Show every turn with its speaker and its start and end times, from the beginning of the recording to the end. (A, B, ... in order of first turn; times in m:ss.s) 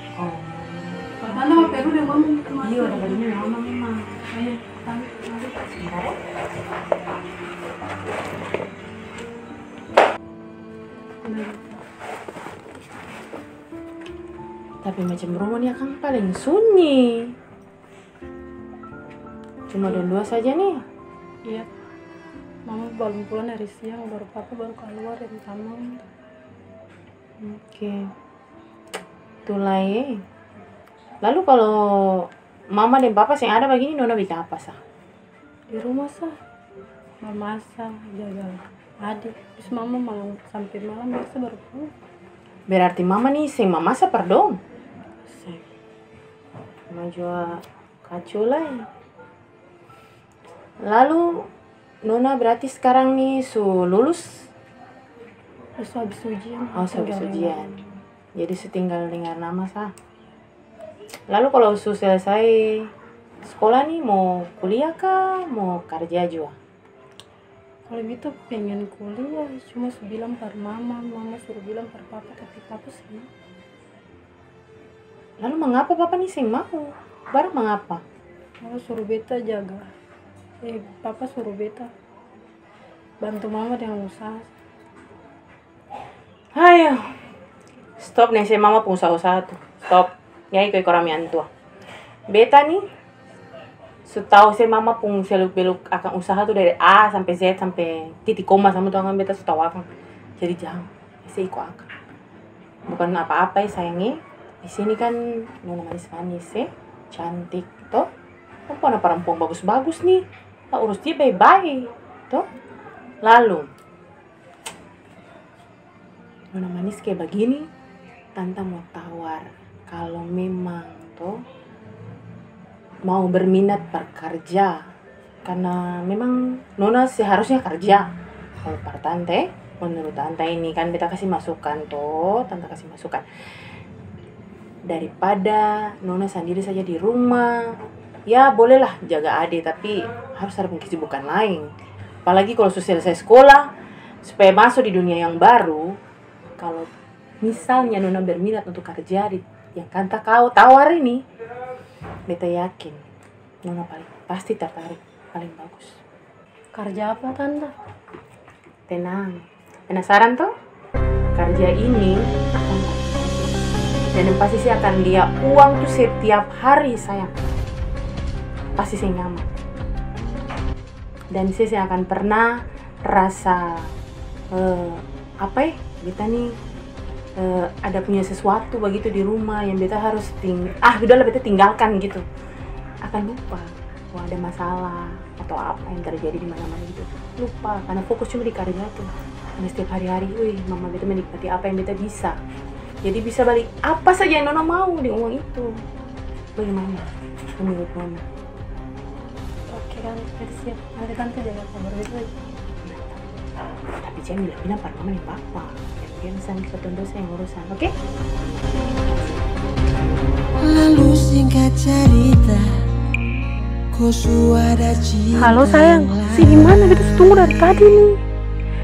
0:00.2-0:04.1 A
0:01.2-0:03.4 B
0:04.4-0:05.4 B
0:05.7-0:06.2 A
0:11.3-0:11.8 B
0:14.8-0:17.4 A
0:19.7-0:20.8 A
0:22.7-0:26.0 B
0:27.4-0:28.1 A
0:29.5-0:30.2 A
0:31.2-0:34.8 A
0:35.7-0:36.3 B
0:37.2-0:41.9 B
0:42.7-0:44.6 A
0:45.3-0:45.6 B
0:46.9-0:48.9 A
0:50.8-0:51.5 A
0:52.0-0:54.5 A
0:55.8-0:57.7 B
0:56.7-0:57.8 A
0:58.4-0:59.9 A
1:01.3-1:02.9 A
1:03.4-1:06.6 A
1:07.9-1:13.3 B
1:15.4-1:18.0 A
1:18.6-1:19.9 B
1:20.6-1:21.9 B
1:23.2-1:24.5 B
1:26.6-1:27.2 A
1:28.0-1:31.5 A
1:32.3-1:32.8 A
1:34.1-1:39.9 A
1:40.4-1:41.9 A
1:42.9-1:48.1 A
1:48.7-1:52.4 A
1:53.2-1:53.7 A
1:56.5-1:57.7 A
1:58.4-2:01.4 A
2:03.1-2:04.9 A
2:05.4-2:08.1 A
2:08.6-2:13.2 A
2:14.9-2:21.7 A
2:22.2-2:23.7 A
2:24.2-2:26.0 A
2:26.6-2:26.9 A
2:27.4-2:31.2 A
2:32.3-2:33.0 A
2:33.6-2:36.0 A
2:36.8-2:37.7 B
2:38.9-2:40.5 A
2:41.4-2:47.3 A
2:48.8-2:49.5 A
2:51.3-2:53.9 A
2:54.5-2:56.6 A
2:57.4-3:02.2 A
3:03.0-3:12.4 A
3:13.0-3:15.7 A
3:16.6-3:17.1 A
3:17.6-3:18.2 A
3:19.7-3:22.4 B
3:22.9-3:23.2 A
3:24.0-3:27.9 A
3:30.6-3:32.8 C
3:33.9-3:37.3 C
3:35.4-3:38.2 B